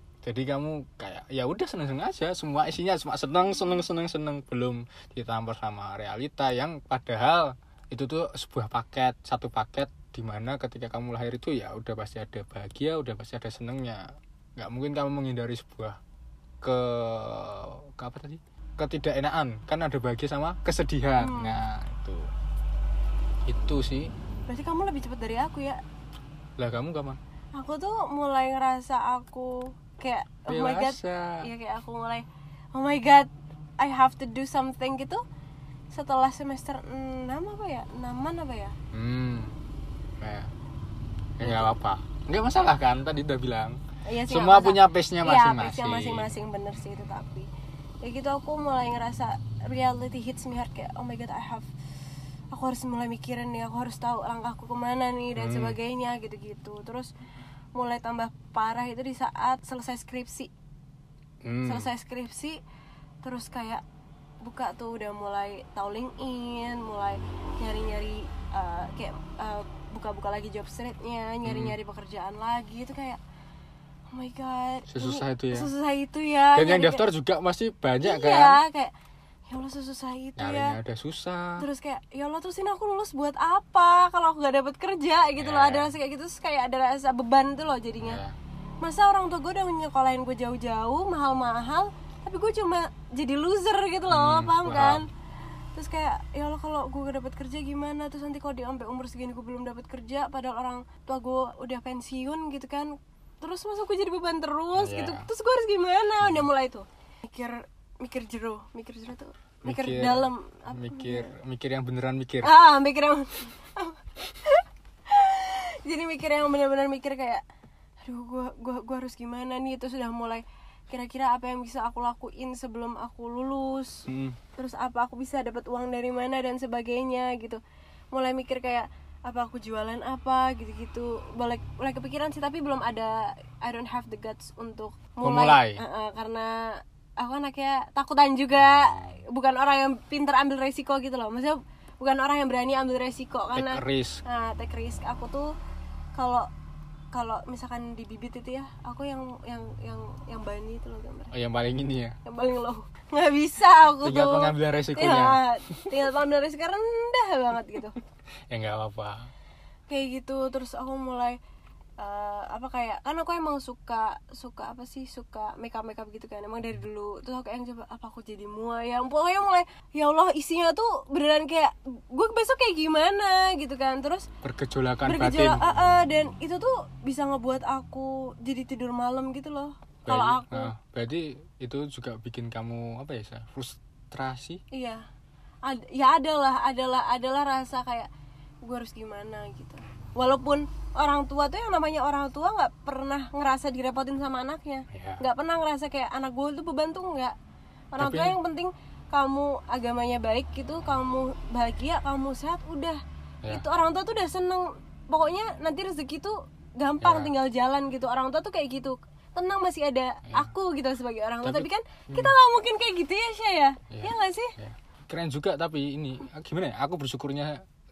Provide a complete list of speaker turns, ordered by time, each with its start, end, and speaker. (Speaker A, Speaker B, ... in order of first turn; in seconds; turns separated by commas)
Speaker A: 0.2-16.0, Speaker A: 16.6-22.3, Speaker B: 21.2-21.6, Speaker A: 23.5-24.1, Speaker B: 24.5-25.8, Speaker A: 26.6-27.2, Speaker B: 27.6-35.2, Speaker A: 30.5-31.4, Speaker B: 35.9-38.8, Speaker A: 38.9-39.6, Speaker A: 40.2-40.5, Speaker A: 41.4-43.8, Speaker B: 41.4-41.7, Speaker B: 44.1-47.5, Speaker A: 44.3-46.3, Speaker B: 48.0-51.7, Speaker B: 52.5-57.1, Speaker A: 55.4-55.8, Speaker B: 57.8-60.5, Speaker A: 61.4-61.9, Speaker B: 61.6-62.6, Speaker B: 63.2-63.8, Speaker B: 64.4-73.2, Speaker A: 71.5-71.8, Speaker B: 74.1-77.0, Speaker A: 74.9-75.7, Speaker A: 76.5-78.6, Speaker B: 78.0-78.9, Speaker B: 79.5-80.8, Speaker A: 80.4-81.6, Speaker B: 81.6-88.2, Speaker A: 85.4-85.9, Speaker A: 88.0-88.4, Speaker B: 88.8-95.1, Speaker A: 94.1-95.1, Speaker B: 95.8-111.3, Speaker A: 104.8-105.3, Speaker A: 109.6-112.5, Speaker B: 112.4-117.4, Speaker B: 118.0-124.1, Speaker A: 124.1-124.4, Speaker B: 124.6-127.6, Speaker B: 128.1-145.5, Speaker A: 135.2-135.8, Speaker A: 138.6-139.2, Speaker A: 143.5-144.2, Speaker B: 146.2-146.5, Speaker B: 147.1-151.3, Speaker A: 151.3-152.2, Speaker B: 152.2-158.0, Speaker A: 154.0-155.9, Speaker A: 158.5-159.3, Speaker B: 159.9-161.4, Speaker B: 162.0-174.3, Speaker A: 174.4-175.7, Speaker B: 175.1-180.7, Speaker A: 180.1-184.6, Speaker B: 184.7-185.0, Speaker B: 185.6-188.1, Speaker B: 188.6-197.3, Speaker A: 194.9-195.2, Speaker B: 197.9-214.5, Speaker A: 198.0-198.4, Speaker A: 207.0-207.3, Speaker A: 211.4-212.3, Speaker A: 213.9-217.6